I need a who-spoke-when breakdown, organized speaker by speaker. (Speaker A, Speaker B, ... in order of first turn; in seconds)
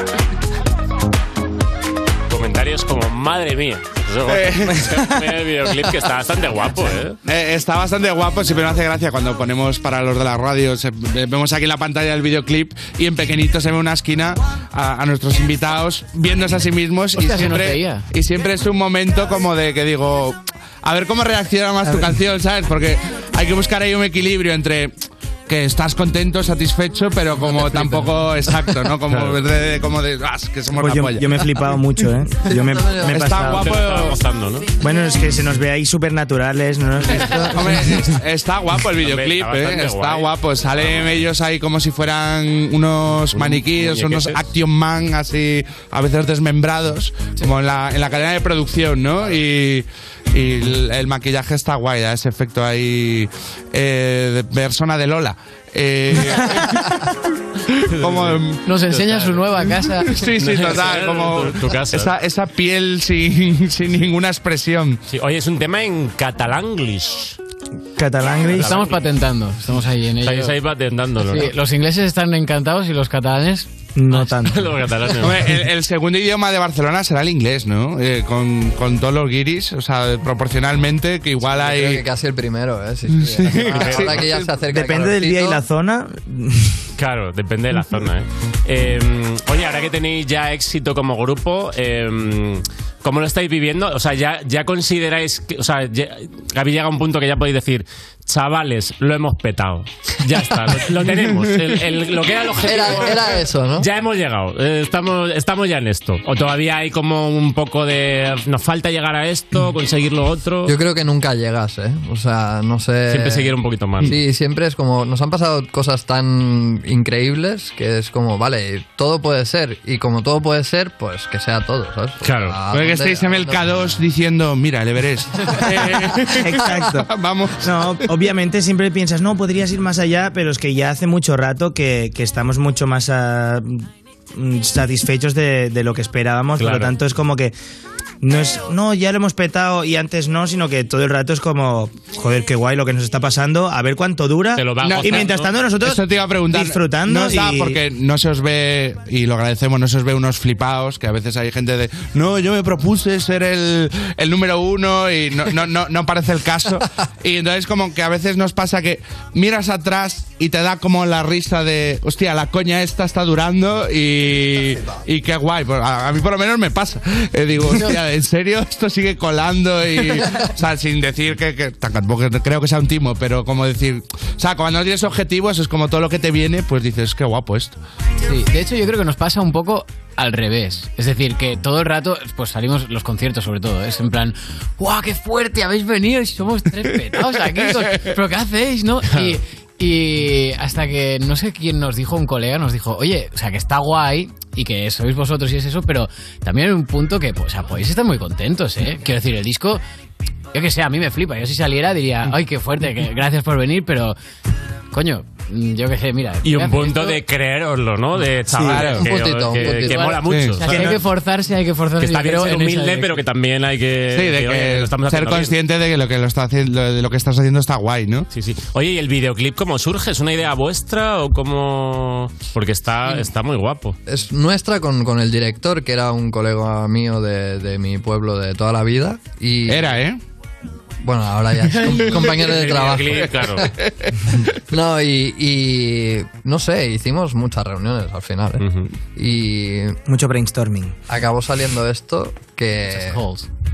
Speaker A: 2.3-7.2, 29.1-29.4, 33.4-34.7, 39.0-41.2, 43.3-44.4, 57.9-59.4, 60.4-62.1, 65.1-67.3, 68.4-69.0, 70.2-71.5, 74.1-75.6, 83.7-84.3, 87.0-110.7, 113.1-114.2, 122.2-122.6, 136.6-136.9, 144.6-145.5, 189.1-189.4, 206.4-211.0, 212.0-215.6, 218.3-224.0, 231.8-233.7, 238.6-238.9
Speaker B: 4.3-4.9, 7.2-24.9, 25.5-31.4, 33.0-34.2, 37.2-57.0, 57.7-58.6, 60.0-65.0, 75.2-82.0, 83.1-84.5, 122.7-128.0, 144.8-145.3, 145.8-177.8, 187.8-188.1, 208.6-209.1, 210.2-210.6, 214.1-218.3, 229.7-230.2
Speaker C: 17.1-18.1, 27.7-28.1, 58.6-60.2, 68.5-70.6, 71.2-73.7, 178.2-199.8, 200.5-204.2, 204.9-207.2, 209.8-213.2, 242.9-243.5
Speaker D: 30.7-33.6, 34.8-37.8, 68.0-68.7, 73.9-74.6, 84.7-86.8, 126.4-127.1, 127.6-137.5, 138.2-147.8, 240.1-241.0
Speaker E: 32.5-33.1, 81.4-85.6, 102.6-103.9, 110.6-124.0, 208.6-210.1, 224.1-230.0, 231.0-233.7, 234.7-238.6, 239.2-240.0, 241.1-243.2